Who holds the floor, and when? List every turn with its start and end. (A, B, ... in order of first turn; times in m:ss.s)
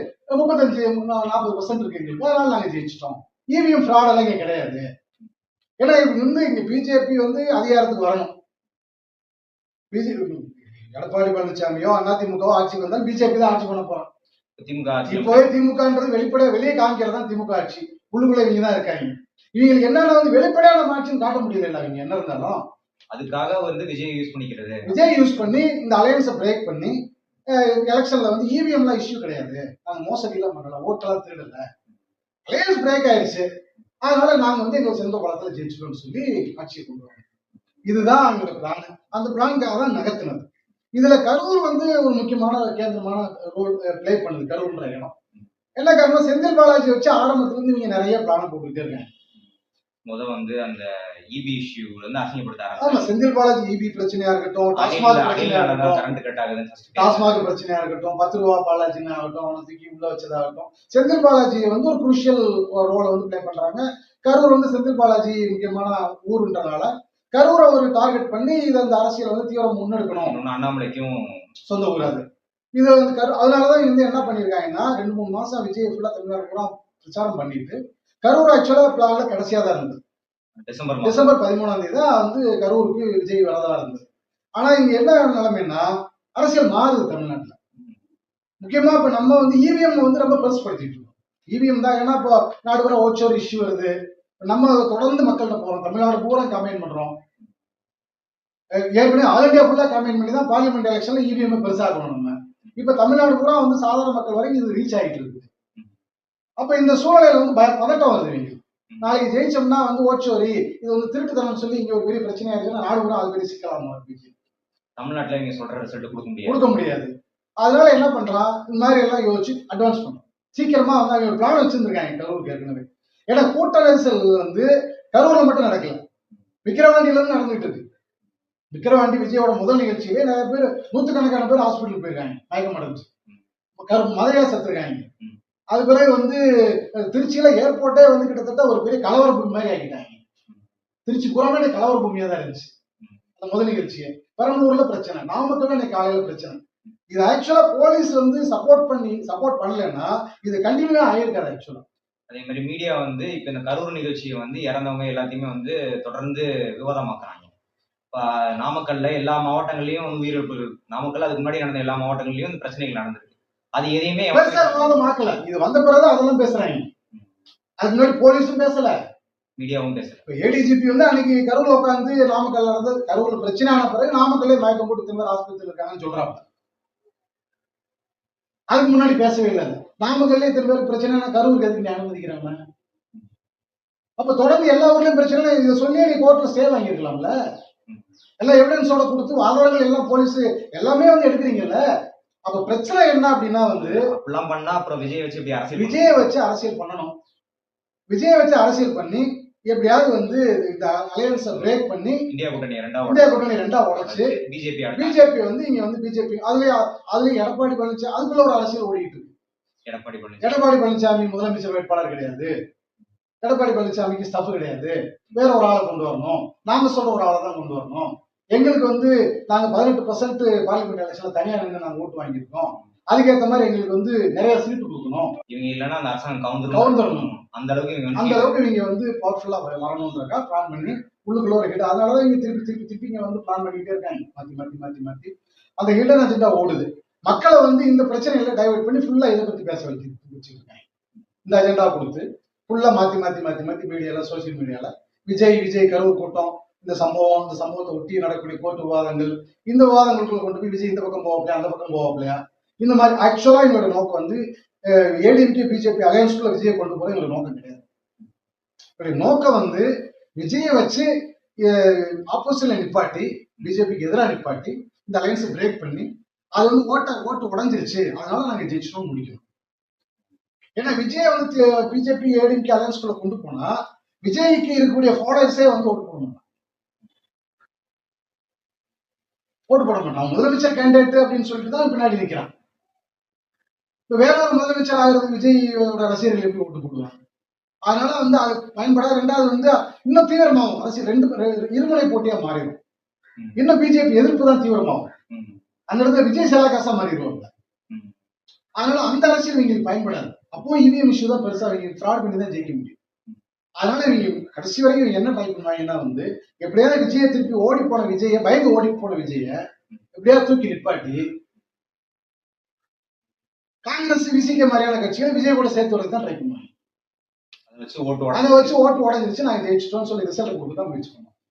0:00.3-0:04.9 A
0:05.8-0:08.3 A
0:09.9-0:14.1 A
0:14.6-0:15.6 B
0:15.1-0:22.6 A
0:23.1-0:25.3 B
0:24.8-0:27.0 A
0:27.5-0:31.6 A
0:32.5-0:33.5 A
0:34.0-0:37.2 A
0:37.9-0:45.1 A
0:45.8-0:49.1 A
0:50.1-0:53.1 B
0:52.8-0:56.1 A
0:54.7-0:57.4 B
0:57.0-1:10.4 A
1:10.2-1:11.2 B
1:11.7-1:12.2 A
1:12.7-1:20.0 A
1:20.6-1:21.3 B
1:21.0-1:24.0 A
1:24.6-1:27.5 A
1:28.6-1:33.9 A
1:34.4-1:37.2 A
1:38.9-1:45.5 A
1:46.6-1:54.3 A
1:55.0-1:56.6 B
1:56.4-2:06.0 A
2:06.6-2:07.8 A
2:08.7-2:13.1 A
2:13.8-2:15.1 A
2:15.7-2:20.2 A
2:21.1-2:22.7 A
2:23.4-2:31.8 A
2:32.3-2:37.5 B
2:38.1-2:45.0 B
2:44.3-2:46.9 A
2:47.8-2:49.0 A
2:49.6-2:50.2 B
2:50.3-2:56.4 A
2:58.7-3:02.6 A
3:04.2-3:07.3 A
3:08.4-3:11.8 A
3:12.4-3:14.1 A
3:13.8-3:16.3 B
3:15.7-3:17.1 A
3:18.1-3:22.3 A
3:22.3-3:25.2 B
3:23.1-3:24.4 A
3:24.9-3:29.3 A
3:29.9-3:30.6 B
3:30.4-3:32.5 A
3:33.4-3:45.4 A
3:45.5-3:48.6 B
3:46.7-3:47.3 A
3:48.1-4:00.8 A
4:01.4-4:17.8 A
4:19.0-4:19.9 A
4:20.4-4:29.4 A
4:30.8-4:36.4 A
4:39.7-4:42.5 A
4:44.1-4:47.2 A
4:47.9-4:52.8 A
4:53.6-4:55.1 A
4:55.3-4:55.6 B
4:55.9-4:57.5 A
4:58.8-5:03.0 A
5:03.8-5:09.6 A
5:10.1-5:11.2 A
5:13.9-5:16.7 A
5:17.7-5:18.8 B
5:18.3-5:21.3 A